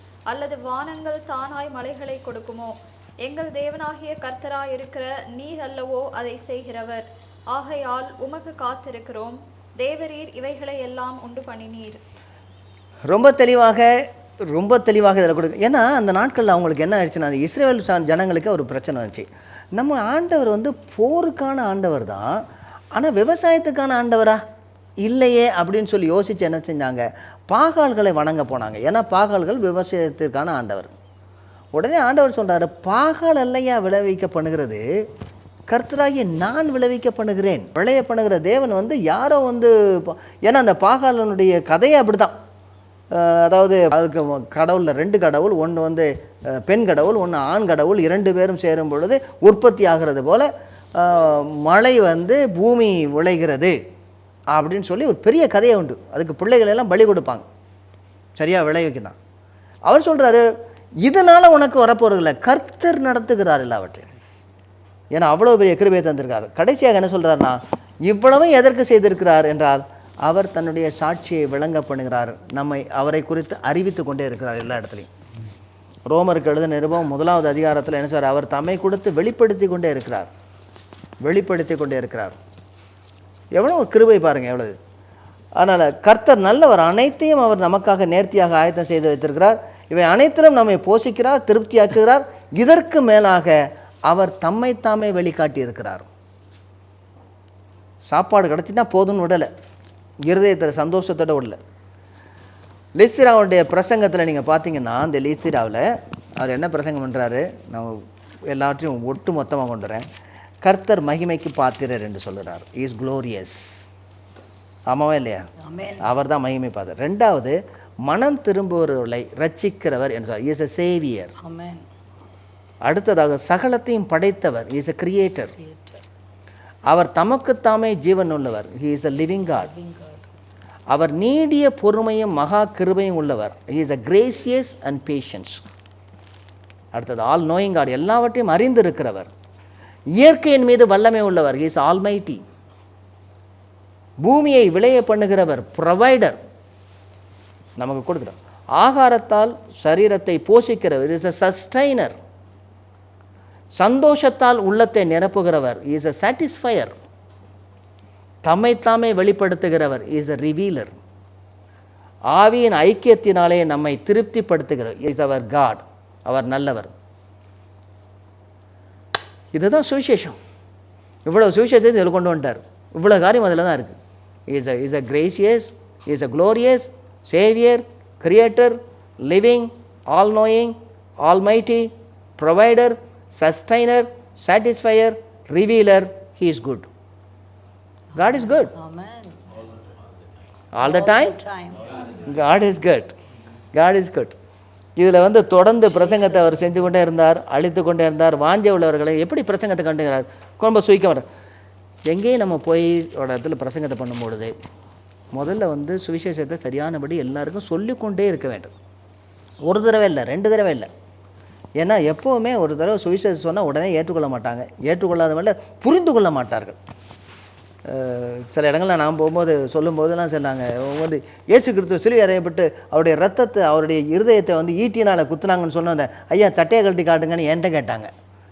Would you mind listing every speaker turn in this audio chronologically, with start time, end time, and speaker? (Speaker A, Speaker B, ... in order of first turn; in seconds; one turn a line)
Speaker A: 0.3-12.0
Speaker B: 13.1-13.9
Speaker B: 14.5-22.4
Speaker B: 22.9-24.4
Speaker B: 25.0-30.9
Speaker B: 31.7-34.8
Speaker B: 35.7-42.3
Speaker B: 43.1-53.8
Speaker B: 54.5-57.5
Speaker B: 58.4-59.1
Speaker B: 59.9-60.5
Speaker B: 61.0-64.1
Speaker B: 65.1-75.1
Speaker B: 76.1-80.3
Speaker B: 81.2-82.4
Speaker B: 83.5-84.8
Speaker B: 85.6-96.1
Speaker B: 98.0-99.5
Speaker B: 100.3-101.6
Speaker B: 103.0-110.1
Speaker B: 110.6-113.9
Speaker B: 114.9-115.4
Speaker C: 115.6-116.0
Speaker B: 116.0-121.3
Speaker C: 121.4-121.8
Speaker B: 122.8-125.5
Speaker C: 125.4-126.0
Speaker B: 126.9-129.7
Speaker C: 129.4-130.3
Speaker B: 130.9-135.6
Speaker B: 136.9-139.3
Speaker B: 140.2-142.4
Speaker B: 144.2-146.4
Speaker B: 147.8-152.2
Speaker B: 153.8-157.0
Speaker B: 158.4-161.0
Speaker B: 162.3-166.9
Speaker B: 169.5-170.4
Speaker B: 171.2-174.0
Speaker B: 174.5-186.9
Speaker B: 188.2-188.7
Speaker C: 188.2-189.4
Speaker B: 190.7-191.4
Speaker C: 190.8-192.1
Speaker B: 192.1-193.1
Speaker B: 193.7-194.3
Speaker B: 195.0-201.2
Speaker C: 195.8-196.7
Speaker B: 202.1-204.5
Speaker B: 205.3-208.7
Speaker B: 209.7-210.9
Speaker B: 211.8-216.8
Speaker B: 217.9-228.1